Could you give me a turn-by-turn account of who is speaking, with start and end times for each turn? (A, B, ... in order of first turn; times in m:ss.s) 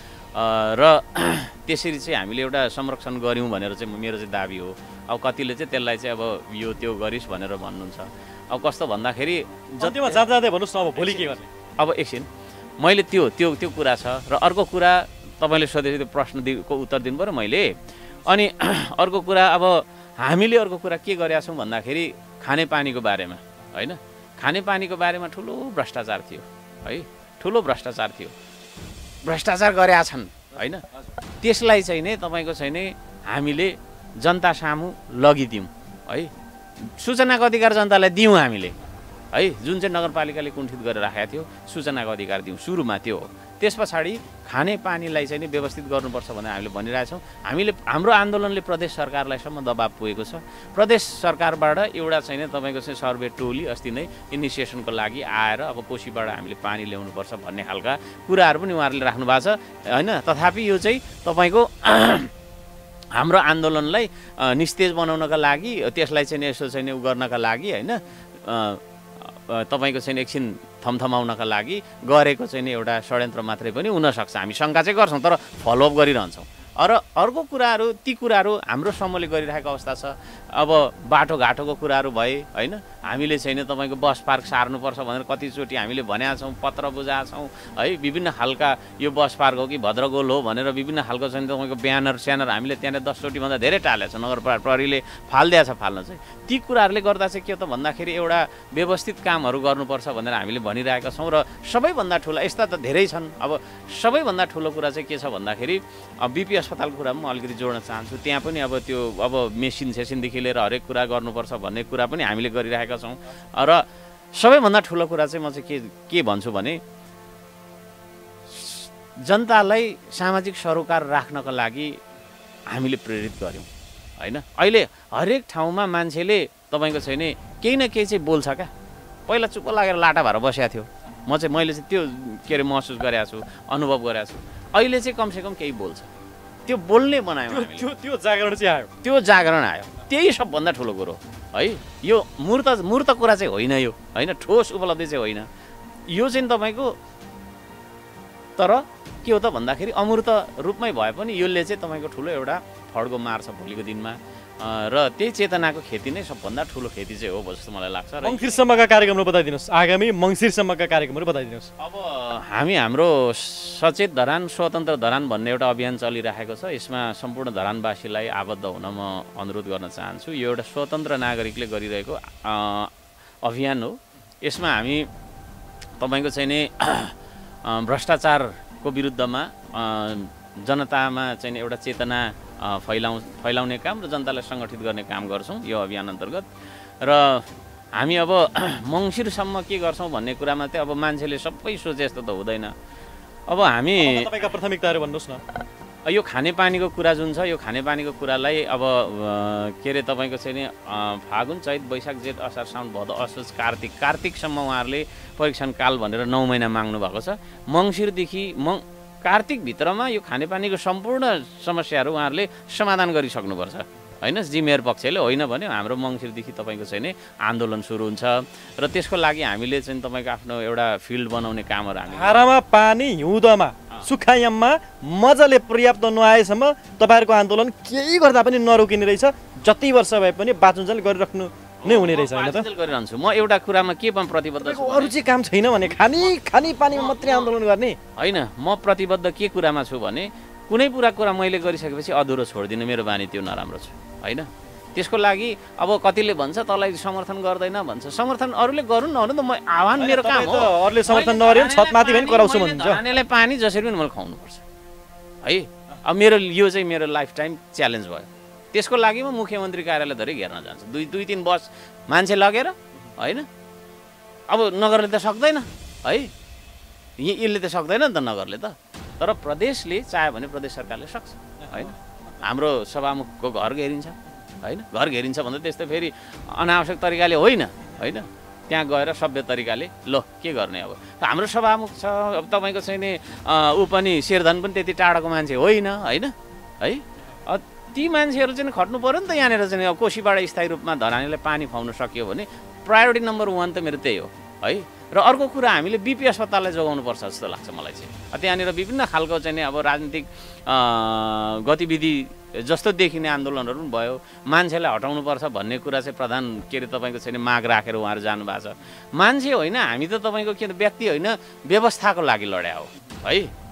0:00.3-0:10.2 A
0:09.8-0:11.4 B
0:10.9-0:12.3 A
0:12.8-0:28.3 A
0:29.2-0:30.8 A
0:31.4-0:36.3 A
0:36.8-0:38.8 A
0:39.3-1:02.3 A
1:03.1-1:56.8 A
1:58.5-2:02.0 A
2:02.7-2:08.7 A
2:09.3-2:16.1 A
2:16.6-2:17.8 A
2:17.5-2:18.9 B
2:19.0-2:25.5 A
2:26.1-2:26.9 A
2:28.6-2:38.5 A
2:38.2-2:41.7 B
2:41.8-2:52.9 A
2:53.4-2:55.1 A
2:56.0-3:06.4 A
3:07.0-3:12.7 A
3:13.5-3:14.3 A
3:14.0-3:15.4 B
3:16.0-3:42.4 A
3:42.1-3:52.6 B
3:51.8-3:55.1 A
3:54.6-3:58.0 B
3:56.9-3:57.5 A
3:58.2-4:14.6 A
4:10.0-4:13.0 B
4:15.4-4:23.5 A
4:24.5-4:26.3 A
4:27.2-5:13.5 A
4:31.6-4:31.9 B